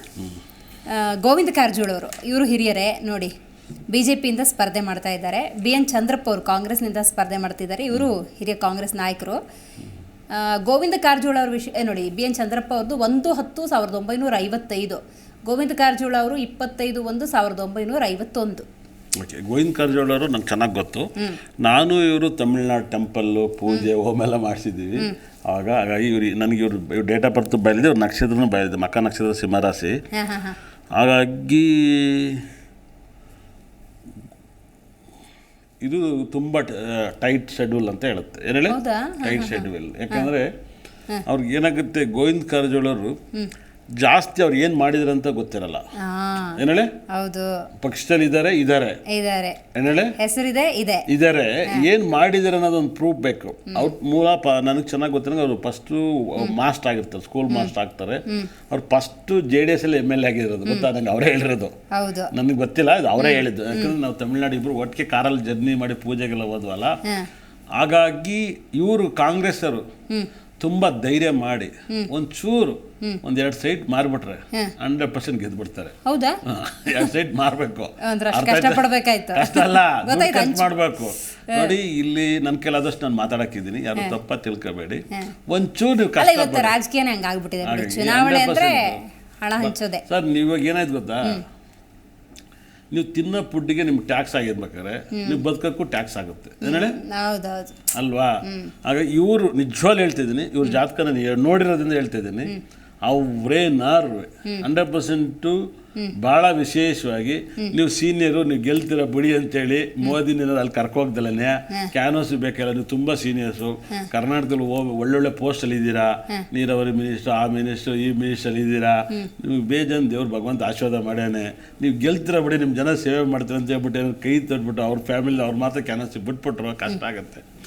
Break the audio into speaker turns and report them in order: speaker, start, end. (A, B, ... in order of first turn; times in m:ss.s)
0:00.9-0:03.3 A
0:03.9-0:09.4 A
0:10.3-0:18.6 A
0:19.2-0:21.1 B
0:21.6-0:30.0 B
0:30.1-0:30.6 A
0:30.9-0:32.4 B
0:35.8-0:40.5 B
0:38.7-0:40.3 A
0:41.2-0:43.2 B
0:44.0-0:45.8 B
0:46.0-0:46.6 A
0:46.6-0:46.9 B
0:47.1-0:47.5 A
0:47.8-0:49.0 B
0:49.1-0:49.6 A
0:49.7-0:50.1 B
0:50.2-0:51.0 A
0:51.1-1:01.7 B
1:01.9-1:02.3 A
1:02.3-1:07.0 B
1:03.2-1:03.9 A
1:07.8-1:09.8 B
1:10.6-1:15.9 B
1:16.0-1:16.4 A
1:16.4-1:26.7 B
1:18.0-1:20.7 A
1:21.5-1:21.7 A
1:26.2-1:30.0 A
1:27.6-1:29.0 B
1:29.6-1:31.4 B
1:32.9-1:37.0 B
1:35.1-1:35.4 A
1:36.6-1:37.8 A
1:37.9-1:42.5 B
1:38.5-1:38.7 A
1:43.0-1:45.6 B
1:46.2-2:07.4 B